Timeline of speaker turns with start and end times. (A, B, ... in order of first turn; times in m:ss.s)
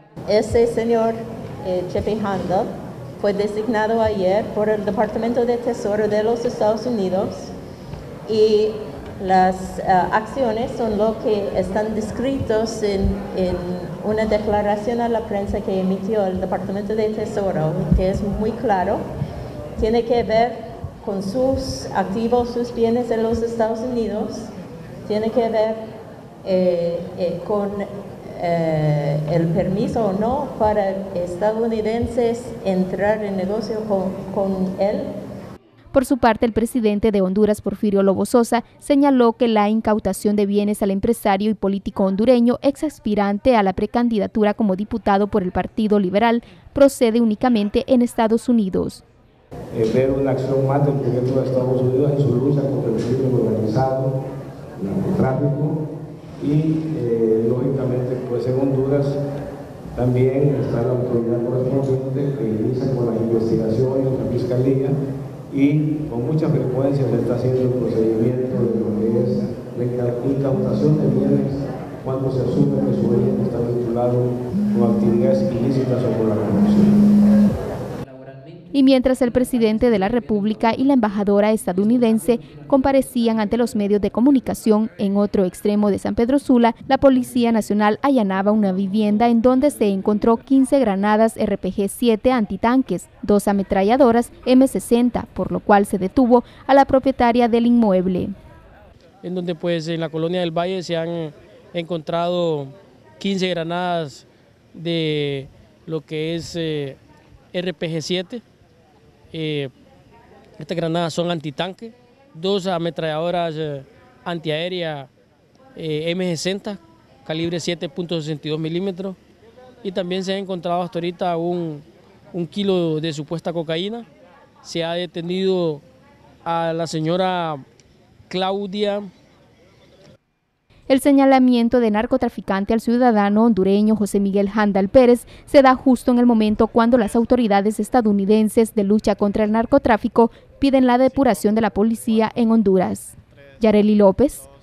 0:00.3-0:07.5 A
0:08.2-0:19.0 A
0:19.8-0:24.5 A
0:25.0-0:25.8 A
0:26.4-0:35.1 A
0:35.9-0:49.0 B
0:49.7-0:54.1 C
0:54.8-0:55.8 C
0:56.4-0:59.2 C
1:00.0-1:05.0 C
1:05.5-1:17.0 C
1:18.7-1:38.3 B
1:39.2-1:47.0 D
1:47.5-1:48.4 D
1:49.3-1:49.7 D
1:50.6-1:55.1 D
1:55.8-1:59.2 D
1:59.8-2:04.1 D
2:04.6-2:05.8 D
2:06.4-2:07.6 D
2:08.3-2:09.1 D
2:10.9-2:24.4 B